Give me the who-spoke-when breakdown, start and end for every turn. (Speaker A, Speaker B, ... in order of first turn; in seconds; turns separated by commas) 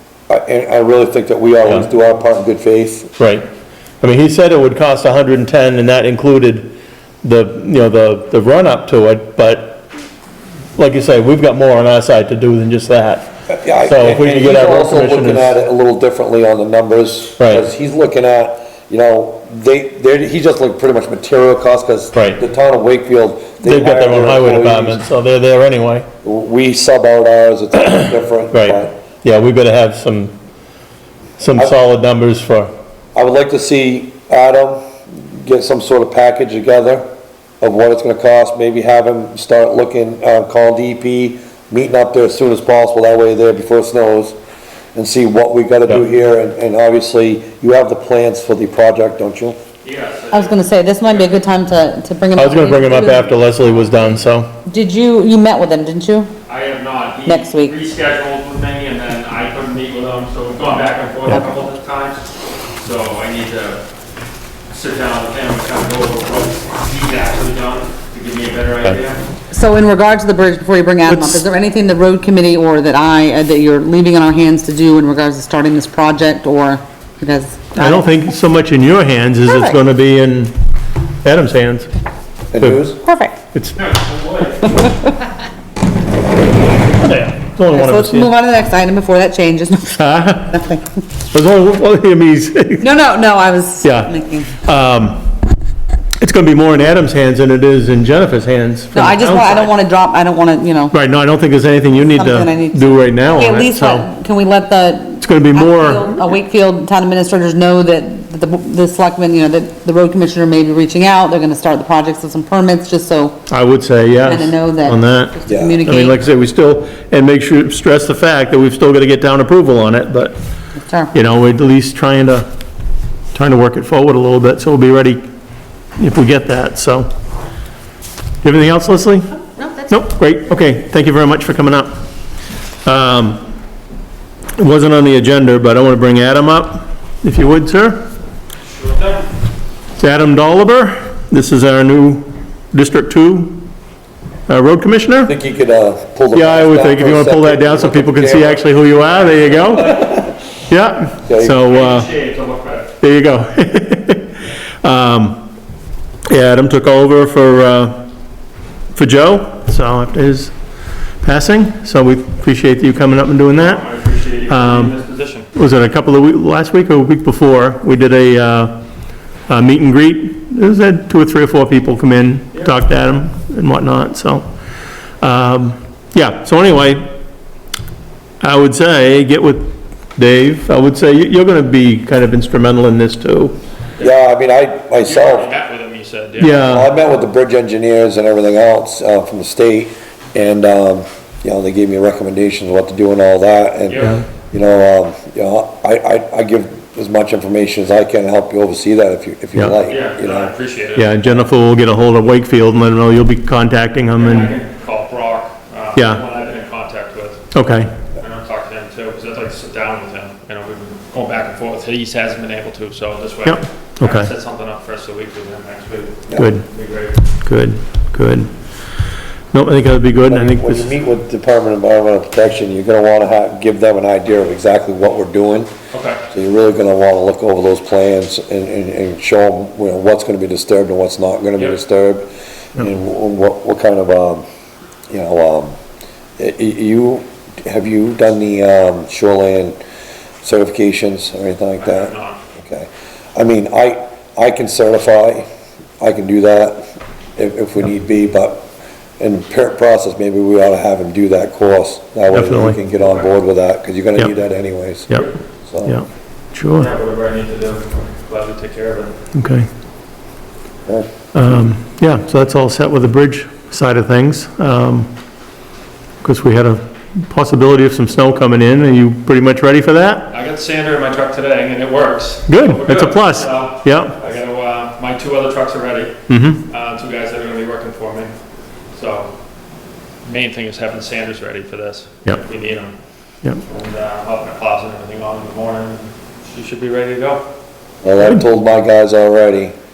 Speaker A: 0.3-3.1, Speaker B: 3.2-3.4, Speaker B: 4.0-9.9, Speaker B: 10.8-15.6, Speaker A: 13.6-25.0, Speaker B: 17.4-17.6, Speaker B: 22.1-22.4, Speaker B: 23.6-26.1, Speaker A: 26.2-28.9, Speaker B: 27.9-30.4, Speaker B: 31.4-32.7, Speaker A: 31.5-31.8, Speaker A: 33.1-37.0, Speaker A: 37.6-44.4, Speaker A: 45.0-49.6, Speaker C: 49.8-51.4, Speaker D: 50.3-53.4, Speaker B: 52.3-54.5, Speaker D: 54.7-56.3, Speaker C: 56.5-62.2, Speaker D: 57.2-57.7, Speaker C: 62.8-63.8, Speaker C: 64.7-69.2, Speaker D: 69.5-78.2, Speaker B: 71.0-71.4, Speaker B: 77.8-80.5, Speaker D: 79.4-79.8, Speaker B: 81.2-81.9, Speaker A: 82.5-83.0, Speaker B: 82.6-82.9, Speaker D: 83.0-83.3, Speaker B: 83.5-83.8, Speaker C: 83.8-84.8, Speaker B: 87.0-88.3, Speaker D: 87.7-90.8, Speaker B: 90.0-90.6, Speaker B: 91.3-92.9, Speaker D: 92.8-94.6, Speaker B: 93.8-95.2, Speaker B: 96.2-99.7, Speaker D: 98.9-100.9, Speaker B: 100.9-104.1, Speaker D: 102.0-113.4, Speaker B: 105.2-106.2, Speaker B: 113.5-120.3, Speaker D: 114.2-116.2, Speaker A: 115.5-115.8, Speaker D: 120.8-121.1, Speaker B: 121.1-122.5, Speaker B: 123.3-125.2, Speaker B: 126.0-127.1, Speaker B: 128.4-131.9, Speaker B: 132.8-133.4, Speaker B: 134.6-138.1, Speaker C: 138.7-139.3, Speaker B: 140.0-143.7, Speaker B: 144.5-145.3, Speaker A: 145.2-148.8, Speaker B: 146.3-152.1, Speaker C: 149.1-150.0, Speaker A: 151.2-151.6, Speaker C: 151.6-152.9, Speaker B: 153.0-155.5, Speaker B: 156.3-158.1, Speaker B: 158.9-160.5, Speaker B: 161.2-163.8, Speaker C: 163.5-165.5, Speaker B: 164.5-164.9, Speaker B: 165.5-168.8, Speaker B: 169.5-174.5, Speaker B: 175.2-177.1, Speaker B: 178.4-183.6, Speaker A: 184.0-185.5, Speaker C: 185.0-186.8, Speaker B: 186.4-186.9, Speaker A: 186.6-200.5, Speaker C: 193.9-194.2, Speaker C: 199.9-201.2, Speaker B: 201.0-204.6, Speaker C: 204.2-207.4, Speaker B: 206.0-206.2, Speaker B: 207.5-207.9, Speaker C: 208.1-217.2, Speaker B: 213.4-214.3, Speaker B: 216.4-216.6, Speaker B: 217.4-218.5, Speaker B: 219.5-221.0, Speaker A: 220.2-225.7, Speaker C: 225.9-226.2, Speaker A: 226.3-234.4, Speaker A: 235.1-235.8, Speaker A: 236.4-239.8, Speaker A: 240.4-245.5, Speaker C: 241.8-242.4, Speaker A: 246.0-246.8, Speaker A: 247.4-248.7, Speaker A: 249.2-255.1, Speaker B: 252.3-252.8, Speaker A: 255.7-256.0, Speaker B: 255.8-256.9, Speaker C: 256.8-259.1, Speaker B: 259.3-259.7, Speaker A: 260.9-261.1, Speaker B: 261.3-265.1, Speaker B: 266.2-270.3, Speaker C: 270.3-278.3, Speaker B: 272.5-274.1, Speaker B: 276.3-276.6, Speaker C: 278.9-279.3, Speaker C: 280.2-282.9, Speaker C: 283.6-287.4, Speaker A: 288.0-289.7, Speaker B: 288.2-288.4